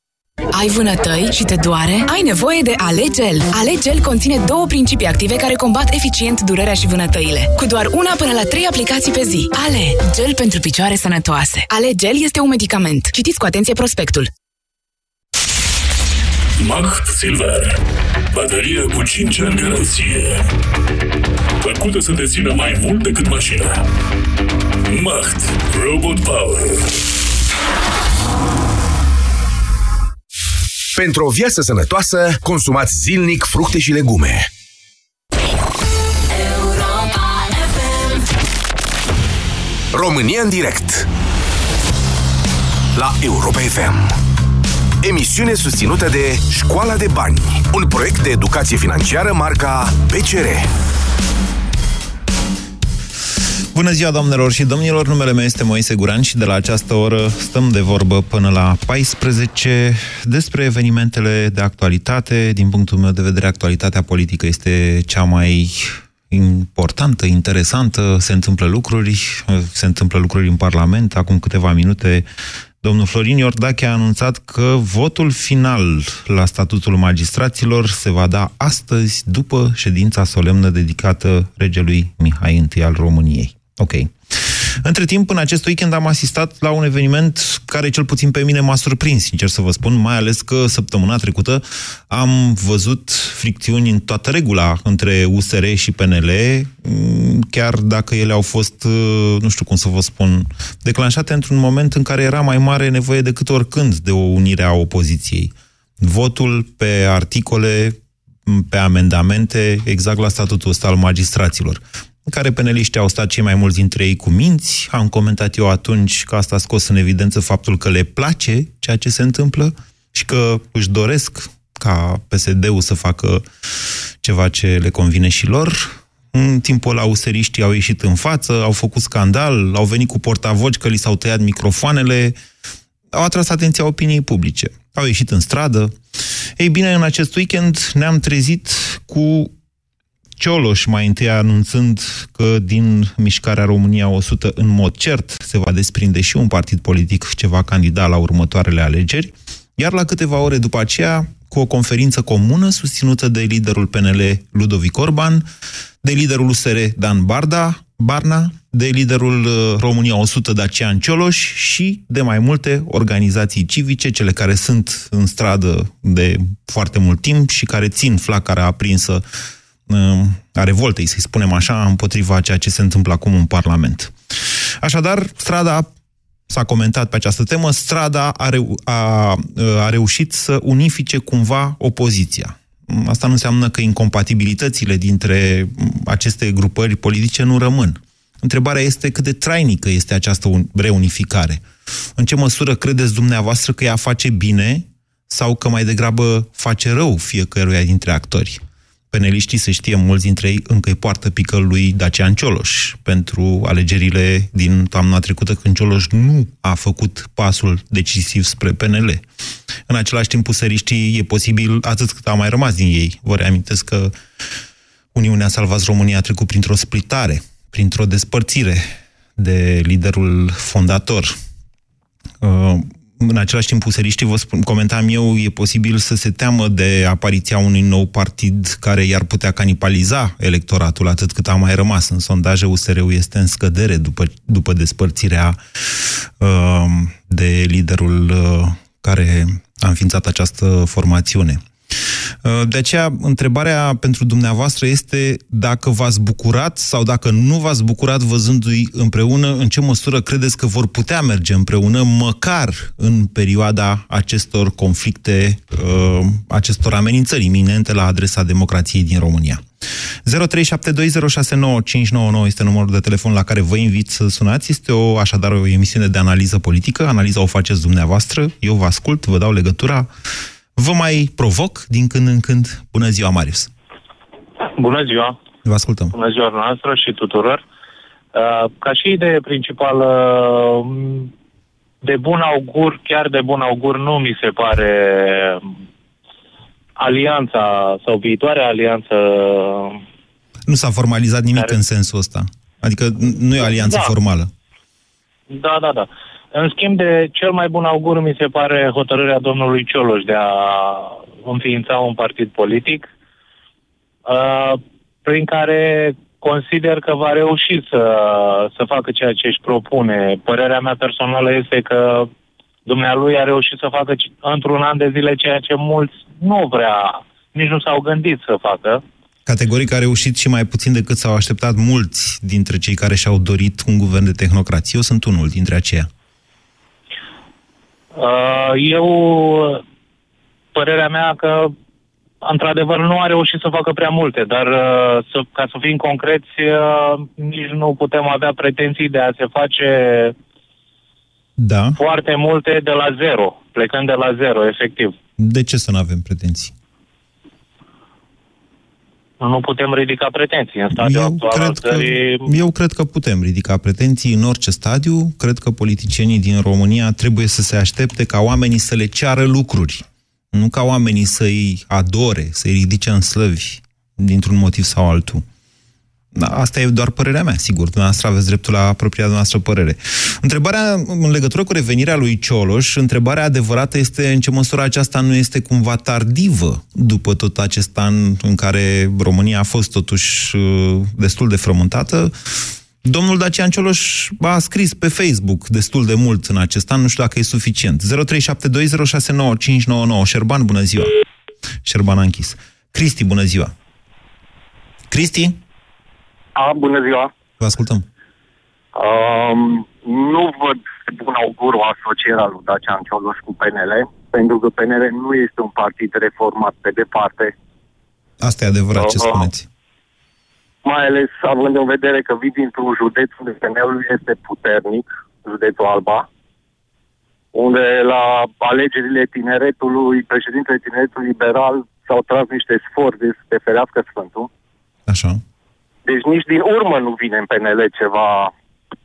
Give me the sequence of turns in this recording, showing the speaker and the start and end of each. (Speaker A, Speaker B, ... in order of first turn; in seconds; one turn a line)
Speaker A: 0.5-14.3
Speaker B: 16.6-17.8
Speaker B: 18.3-20.4
Speaker B: 21.6-23.8
Speaker B: 24.9-26.9
Speaker C: 30.9-34.5
Speaker A: 36.5-36.8
Speaker C: 39.9-41.1
Speaker C: 43.0-44.1
Speaker C: 45.0-50.7
Speaker D: 53.7-72.3
Speaker D: 72.8-132.4
Speaker D: 133.1-136.0
Speaker D: 136.6-139.5
Speaker D: 140.4-155.4
Speaker D: 156.0-169.2
Speaker D: 169.9-174.1
Speaker D: 174.8-175.9
Speaker D: 176.5-191.6
Speaker D: 192.2-209.2
Speaker D: 209.9-214.1
Speaker D: 215.1-218.8
Speaker D: 219.4-221.3
Speaker D: 222.4-259.6
Speaker D: 260.2-270.1
Speaker D: 270.8-273.7
Speaker E: 274.7-275.4
Speaker D: 275.6-276.1
Speaker E: 276.1-277.6
Speaker E: 278.3-281.3
Speaker E: 282.0-285.8
Speaker E: 287.0-290.0
Speaker D: 290.7-294.5
Speaker E: 293.6-294.1
Speaker E: 295.5-303.1
Speaker E: 304.2-312.3
Speaker E: 312.9-319.0
Speaker D: 319.4-326.1
Speaker E: 328.1-329.8
Speaker E: 330.7-331.7
Speaker E: 332.4-340.4
Speaker D: 341.6-342.0
Speaker E: 341.9-345.1
Speaker D: 345.4-346.7
Speaker E: 349.4-352.5
Speaker D: 350.9-365.4
Speaker D: 366.3-391.1
Speaker D: 391.8-393.7
Speaker D: 395.1-395.6
Speaker F: 396.6-397.3
Speaker D: 397.6-398.1
Speaker F: 398.9-407.5
Speaker D: 408.4-409.6
Speaker F: 408.9-409.5
Speaker F: 410.8-416.2
Speaker F: 417.5-424.5
Speaker D: 425.1-425.4
Speaker F: 426.1-428.5